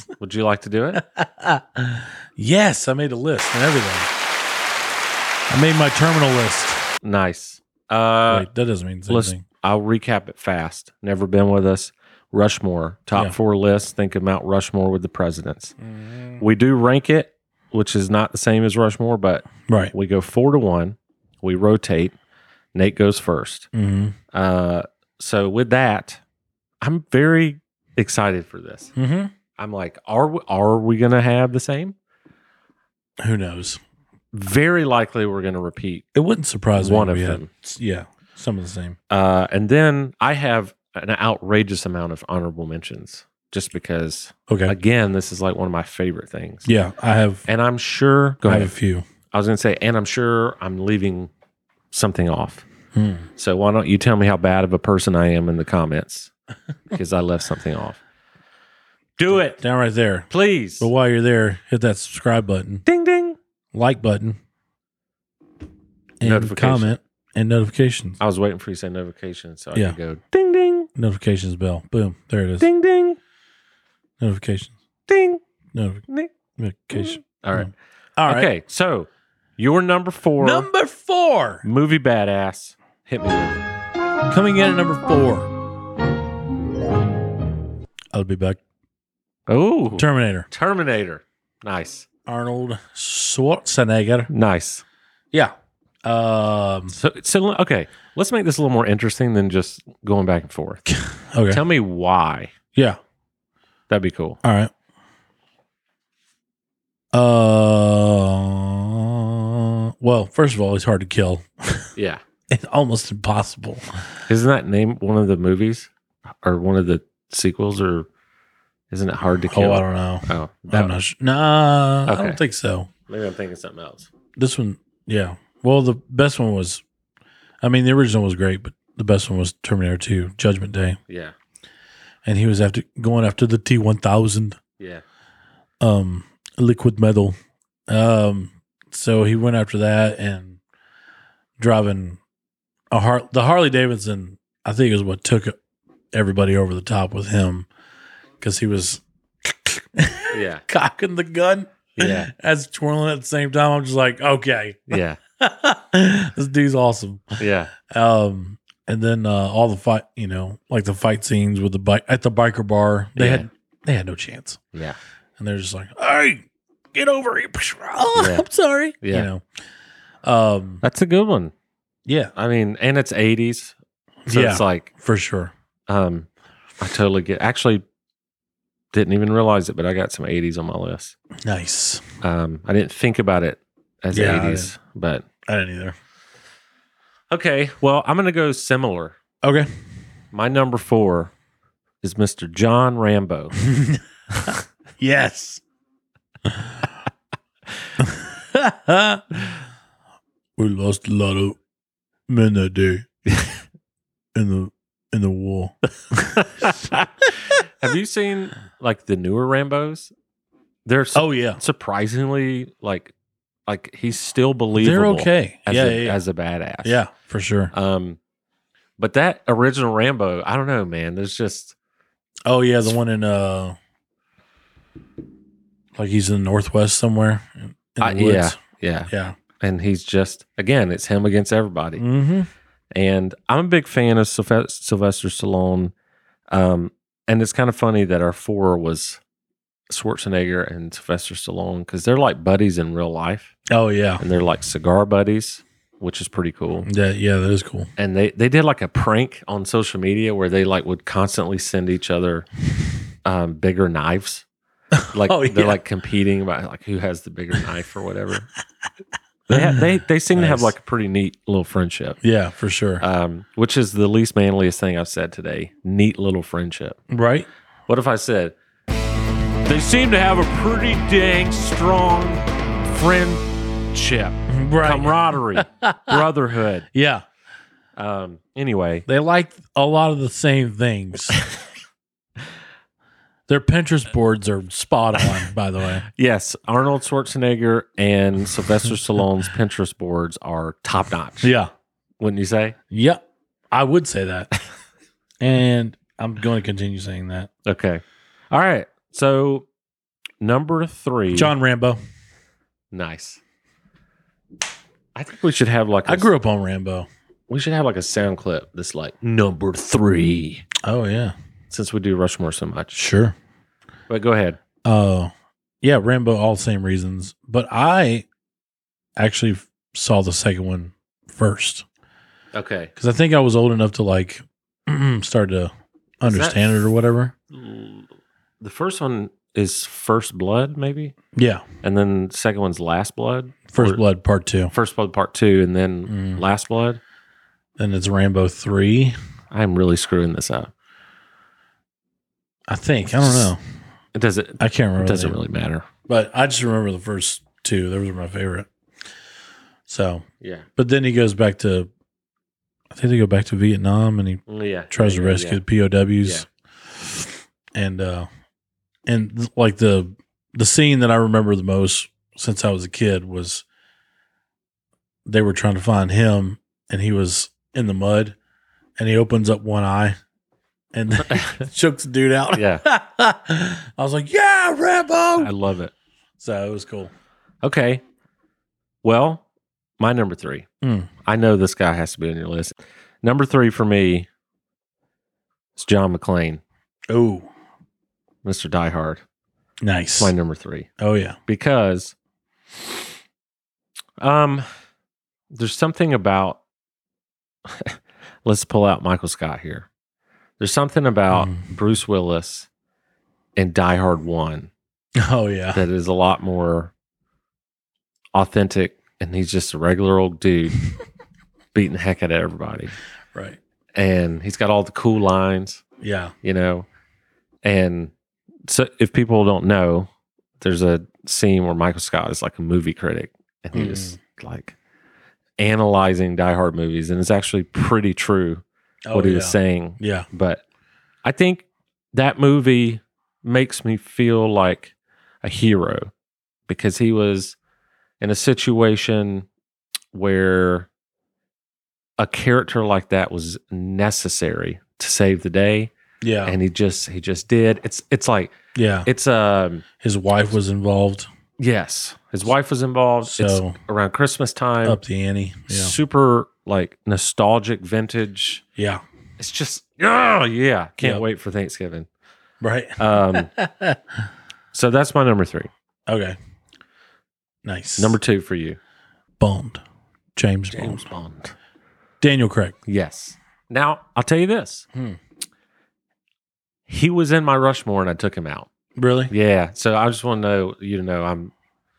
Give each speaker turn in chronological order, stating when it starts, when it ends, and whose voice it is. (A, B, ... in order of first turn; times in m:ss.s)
0:00.2-0:01.0 A
0:00.9-0:04.1 B
0:05.5-0:06.8 B
0:07.0-0:08.5 A
0:08.3-0:09.4 B
0:09.1-0:15.7 A
0:16.0-0:16.4 B
0:16.4-0:22.2 A
0:19.7-0:19.9 B
0:22.7-0:23.7 A
0:23.7-0:24.2 B
0:24.3-0:26.2 A
0:26.8-0:28.9 A
0:29.0-0:29.3 B
0:29.6-0:31.9 A
0:33.2-0:33.8 B
0:34.3-0:36.0 A
0:36.1-0:39.0 B
0:36.8-0:37.5 A
0:39.1-0:46.7 A
0:44.5-0:44.7 B
0:46.6-0:47.4 B
0:47.4-0:48.7 A
0:48.4-0:49.0 B
0:49.3-0:51.3 A
0:51.9-0:52.6 A
0:52.9-0:53.3 B
0:53.4-0:56.3 A
0:56.9-0:58.0 A
0:59.2-0:59.6 A
0:59.3-1:00.3 B
1:00.3-1:00.9 A
1:00.8-1:02.8 B
1:02.8-1:03.4 A
1:03.7-1:04.4 B
1:06.2-1:08.2 B
1:06.2-1:07.0 A
1:08.2-1:10.9 A
1:10.9-1:12.7 B
1:12.6-1:13.2 A
1:14.2-1:14.7 B
1:15.1-1:15.4 A
1:15.7-1:16.0 B
1:16.1-1:16.3 A
1:16.6-1:18.5 B
1:16.9-1:17.7 A
1:18.2-1:20.7 A
1:20.4-1:21.6 B
1:21.6-1:23.6 A
1:24.3-1:25.5 B
1:28.1-1:28.6 B
1:29.5-1:32.0 A
1:30.0-1:30.5 B
1:32.2-1:34.3 B
1:34.3-1:34.8 A
1:36.0-1:36.9 B
1:36.9-1:40.8 A
1:40.9-1:41.6 B
1:41.5-1:42.5 A
1:43.9-1:44.4 A
1:44.4-1:44.7 B
1:47.1-1:51.9 B
1:52.0-1:52.2 A
1:52.5-1:53.8 B
1:54.3-1:55.9 A
1:56.4-1:58.1 A
1:58.9-2:00.9 A
1:59.5-2:02.9 B
2:02.0-2:02.4 A
2:03.1-2:04.1 A
2:04.4-2:06.8 B
2:07.6-2:11.0 B
2:11.1-2:11.3 A
2:12.2-2:14.6 B
2:15.8-2:17.4 B
2:17.9-2:20.6 B
2:21.6-2:22.2 B
2:22.9-2:25.6 B
2:26.1-2:27.7 B
2:28.4-2:44.6 B
2:30.3-2:30.6 A
2:32.0-2:32.3 A
2:34.9-2:35.2 A
2:37.4-2:37.7 A
2:43.2-2:43.4 A
2:45.4-2:49.4 B
2:48.2-2:48.4 A
2:49.0-2:49.3 A
2:50.2-2:50.8 B
2:50.8-2:51.5 A
2:52.0-2:52.3 B
2:52.3-2:53.7 A
2:54.2-2:55.5 B
2:54.3-2:54.9 A
2:55.9-2:56.3 A
2:56.8-2:57.8 A
2:58.9-3:01.1 A
3:01.4-3:02.0 B
3:02.2-3:05.2 A
3:04.1-3:04.7 B
3:05.4-3:06.0 B
3:07.3-3:09.2 A
3:09.4-3:09.7 B
3:10.3-3:11.3 A
3:12.0-3:13.6 A
3:13.6-3:15.6 B
3:16.4-3:16.7 B
3:18.0-3:19.5 B
3:20.6-3:21.6 B
3:22.3-3:23.0 B
3:23.2-3:23.6 A
3:24.3-3:26.7 B
3:26.4-3:30.1 A
3:30.8-3:33.1 A
3:31.1-3:31.6 B
3:33.7-3:37.0 A
3:34.8-3:36.2 B
3:36.8-3:37.7 B
3:37.7-3:38.2 A
3:39.0-3:41.7 A
3:42.4-3:43.8 B
3:46.0-3:48.6 B
3:48.0-3:52.0 A
3:49.1-3:49.4 B
3:52.0-3:52.5 B
3:52.9-3:55.9 A
3:56.5-3:59.2 A
3:59.9-4:03.5 A
4:03.7-4:04.2 B
4:04.2-4:06.9 A
4:06.8-4:07.9 B
4:08.0-4:12.5 A
4:13.2-4:14.4 A
4:14.9-4:15.8 B
4:15.1-4:18.5 A
4:19.5-4:22.2 A
4:19.5-4:19.8 B
4:20.3-4:20.7 B
4:22.2-4:23.0 B
4:23.0-4:27.0 A
4:27.1-4:27.5 B
4:27.9-4:28.5 A
4:29.6-4:36.9 A
4:34.5-4:36.2 B
4:36.9-4:37.2 B
4:38.0-4:39.0 A
4:39.1-4:41.4 B
4:41.3-4:41.6 A
4:43.5-4:46.0 B
4:46.0-4:51.5 A
4:51.4-4:51.7 B
4:52.2-4:52.8 A
4:52.9-4:53.2 B
4:53.7-4:54.5 B
4:55.4-4:57.5 B
4:57.6-4:59.6 A
5:00.4-5:01.5 A
5:01.3-5:02.0 B
5:02.9-5:03.4 A
5:05.1-5:06.3 A
5:06.0-5:07.1 B
5:07.5-5:10.6 A
5:10.8-5:11.3 B
5:11.7-5:13.0 A
5:12.9-5:13.3 B
5:14.1-5:14.6 A
5:14.8-5:15.3 B
5:15.8-5:18.2 B
5:19.2-5:21.8 B
5:22.5-5:22.9 A
5:23.0-5:27.3 B
5:26.2-5:26.8 A
5:27.5-5:31.1 A
5:31.3-5:31.6 B
5:31.8-5:34.0 A
5:33.7-5:34.7 B
5:34.7-5:37.0 A
5:36.1-5:36.4 B
5:37.8-5:39.1 B
5:39.5-5:40.7 A
5:42.7-5:43.6 B
5:43.2-5:43.5 A
5:44.1-5:45.9 A
5:44.6-5:45.4 B
5:46.1-5:48.7 B
5:49.9-5:50.2 B
5:50.4-5:50.7 A
5:50.8-5:51.9 B
5:52.9-5:56.4 B
5:54.5-5:55.6 A
5:57.0-5:58.3 B
5:59.0-6:03.6 B
6:05.2-6:08.4 B
6:09.0-6:10.2 B
6:10.9-6:15.5 B
6:11.3-6:11.6 A
6:12.5-6:12.8 A
6:15.4-6:15.9 A
6:16.4-6:17.1 B
6:17.6-6:18.0 A
6:19.0-6:19.4 A
6:20.0-6:20.7 A
6:20.8-6:21.1 B
6:21.2-6:24.3 A
6:25.8-6:26.6 A
6:27.1-6:27.5 B
6:28.4-6:29.2 A
6:29.8-6:30.3 B
6:30.2-6:30.9 A
6:31.0-6:31.4 B
6:31.5-6:32.1 A
6:34.2-6:34.6 A
6:35.5-6:36.6 A
6:37.6-6:39.9 A
6:40.6-6:42.7 A
6:41.3-6:41.6 B
6:43.6-6:44.7 A
6:45.2-6:45.8 B
6:45.7-6:46.9 A
6:48.3-6:50.8 A
6:51.7-6:52.9 A
6:53.9-6:55.8 A
6:56.0-6:56.3 B
6:56.4-6:56.9 A
6:57.6-6:58.1 A
6:58.7-7:00.1 A
7:00.6-7:04.8 A
7:03.7-7:04.2 B
7:05.6-7:10.6 A
7:09.0-7:10.3 B
7:11.2-7:16.1 A
7:16.7-7:17.6 A
7:18.2-7:19.5 A
7:20.1-7:20.9 A
7:22.2-7:25.9 A
7:26.2-7:26.6 B
7:26.4-7:28.5 A
7:28.7-7:29.1 B
7:29.0-7:29.8 A
7:30.0-7:31.3 B
7:31.6-7:35.0 A
7:33.2-7:33.8 B
7:34.8-7:35.9 B
7:35.7-7:38.6 A
7:38.8-7:39.0 B
7:39.4-7:42.1 A
7:42.6-7:44.0 B
7:43.0-7:43.5 A
7:44.7-7:45.7 A
7:46.1-7:46.4 B
7:47.6-7:48.2 B
7:48.0-7:48.8 A
7:49.4-7:49.8 B
7:50.4-7:51.0 B
7:50.7-7:51.5 A
7:52.2-7:52.8 B
7:52.8-7:54.8 A
7:56.9-7:58.7 A
7:59.0-7:59.3 B
7:59.3-8:01.5 A